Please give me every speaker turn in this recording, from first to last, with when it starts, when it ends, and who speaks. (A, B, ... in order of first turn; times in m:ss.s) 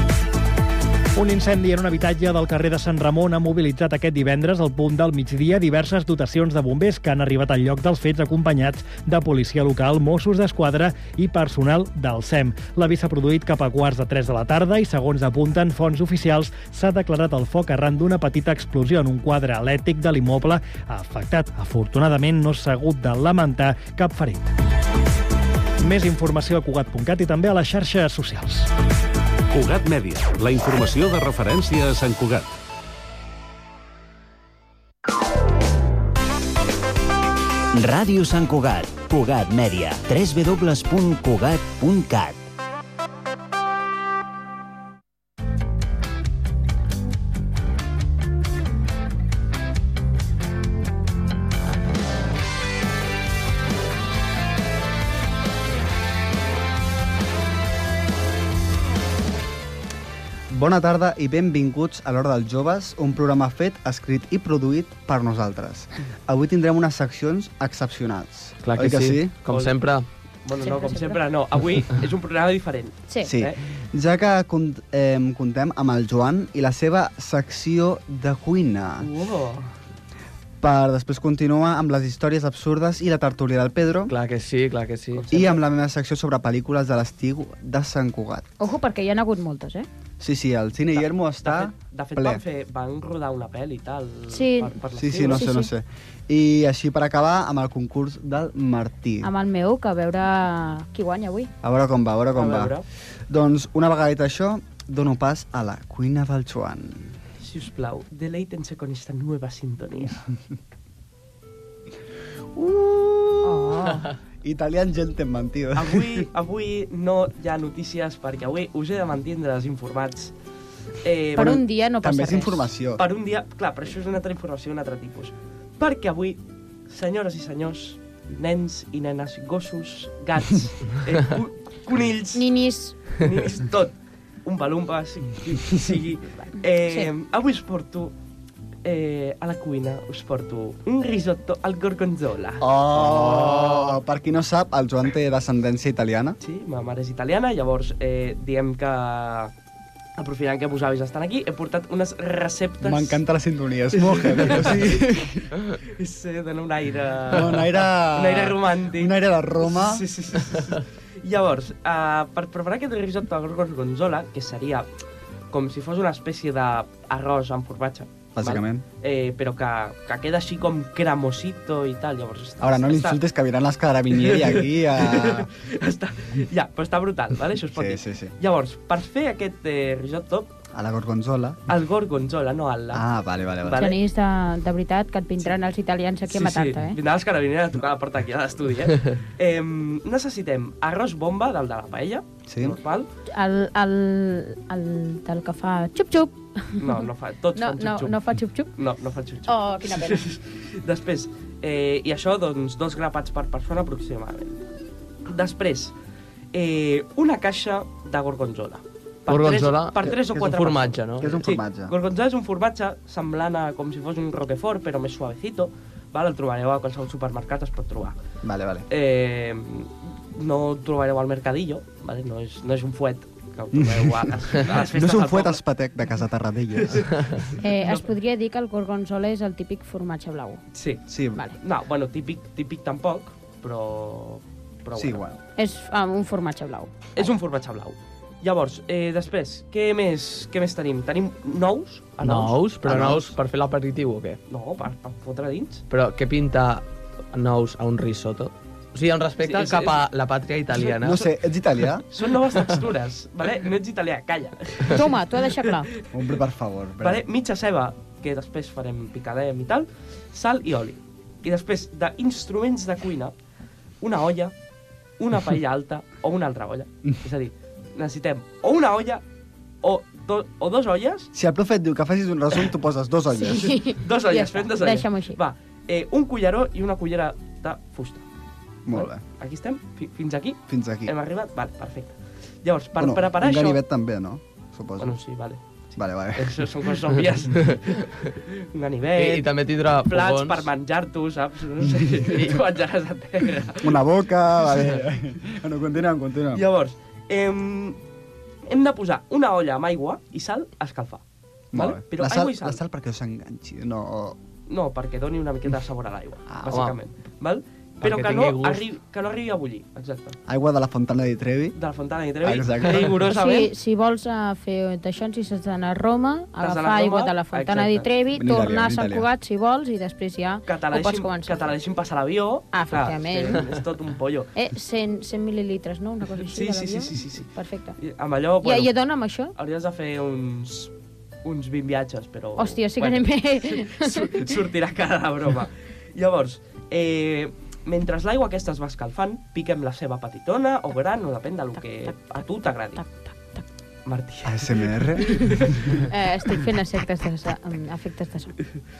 0:01.1-0:24.5 A
0:25.8-0:28.7 A
0:29.5-0:32.6 B
0:37.7-0:42.4 C
1:00.5-1:09.3 D
1:08.6-1:10.0 E
1:09.5-1:09.7 F
1:10.4-1:13.6 F
1:10.6-1:11.2 G
1:13.2-1:19.1 D
1:19.0-1:19.7 F
1:20.6-1:24.1 D
1:24.1-1:25.2 E
1:25.1-1:25.6 F
1:25.3-1:28.5 D
1:28.6-1:29.9 G
1:30.2-1:32.4 D
1:31.0-1:35.5 F
1:34.3-1:34.7 G
1:34.9-1:39.3 D
1:35.2-1:35.7 G
1:39.2-1:41.5 G
1:41.6-1:42.7 D
1:42.3-1:42.8 F
1:43.3-1:47.1 D
1:47.4-1:50.2 F
1:52.6-1:56.3 D
1:53.4-1:54.1 G
1:55.8-2:00.3 F
2:01.0-2:01.6 F
2:01.3-2:02.7 G
2:01.4-2:03.0 D
2:03.0-2:12.4 F
2:12.3-2:13.0 G
2:13.2-2:18.1 F
2:18.8-2:22.6 F
2:22.6-2:26.4 D
2:23.0-2:24.0 E
2:26.4-2:29.5 F
2:30.2-2:33.2 F
2:32.8-2:35.5 D
2:33.9-2:35.0 F
2:35.8-2:44.9 F
2:37.3-2:40.0 D
2:45.5-2:53.2 F
2:48.4-2:48.8 D
2:52.6-2:55.5 D
2:54.1-3:00.5 F
2:57.7-2:58.3 D
3:00.7-3:01.6 D
3:01.7-3:03.0 F
3:02.9-3:04.0 D
3:03.6-3:04.0 F
3:03.7-3:07.0 G
3:06.3-3:13.1 F
3:12.5-3:12.8 D
3:13.3-3:18.7 G
3:16.8-3:18.2 F
3:18.8-3:24.6 F
3:19.4-3:20.2 G
3:25.2-3:25.9 F
3:26.5-3:38.2 F
3:29.3-3:31.4 E
3:30.3-3:30.6 D
3:31.1-3:31.9 D
3:38.4-3:38.9 D
3:38.9-3:45.6 F
3:43.7-3:47.1 D
3:46.8-3:48.1 F
3:47.6-3:50.6 G
3:50.7-3:51.0 F
3:51.1-3:51.4 D
3:51.6-3:55.2 F
3:54.9-3:55.4 D
3:55.6-3:57.3 G
3:57.2-4:03.2 F
4:02.2-4:04.4 E
4:02.9-4:03.3 D
4:04.5-4:05.8 F
4:05.9-4:11.2 E
4:09.4-4:10.0 F
4:10.7-4:11.2 F
4:11.0-4:12.0 D
4:12.1-4:15.1 F
4:14.9-4:15.9 G
4:16.1-4:17.2 D
4:17.0-4:23.4 F
4:24.0-4:24.5 F
4:25.2-4:29.2 F
4:29.8-4:31.3 F
4:31.3-4:33.8 D
4:33.3-4:35.4 G
4:33.9-4:38.2 F
4:38.8-4:39.2 D
4:38.9-4:43.8 F
4:40.7-4:41.1 D
4:43.0-4:45.2 D
4:45.0-4:45.6 F
4:46.0-4:46.7 D
4:46.4-4:54.0 F
4:49.1-4:50.7 E
4:52.3-4:52.6 E
4:53.8-4:56.6 D
4:56.5-4:58.0 F
4:58.6-5:02.8 F
5:01.7-5:04.4 D
5:04.7-5:10.4 F
5:06.5-5:06.8 D
5:06.7-5:07.0 E
5:08.0-5:08.9 E
5:10.5-5:11.8 D
5:11.8-5:13.7 F
5:12.4-5:13.1 D
5:13.3-5:21.7 G
5:16.6-5:18.1 F
5:18.3-5:19.2 D
5:20.7-5:24.5 F
5:22.7-5:23.6 G
5:24.5-5:28.0 G
5:26.4-5:28.9 F
5:28.6-5:29.5 G
5:29.5-5:30.9 F
5:31.4-5:43.0 F
5:32.6-5:34.6 G
5:43.0-5:43.6 G
5:44.0-5:46.0 F
5:44.4-5:45.7 D
5:46.1-5:48.6 G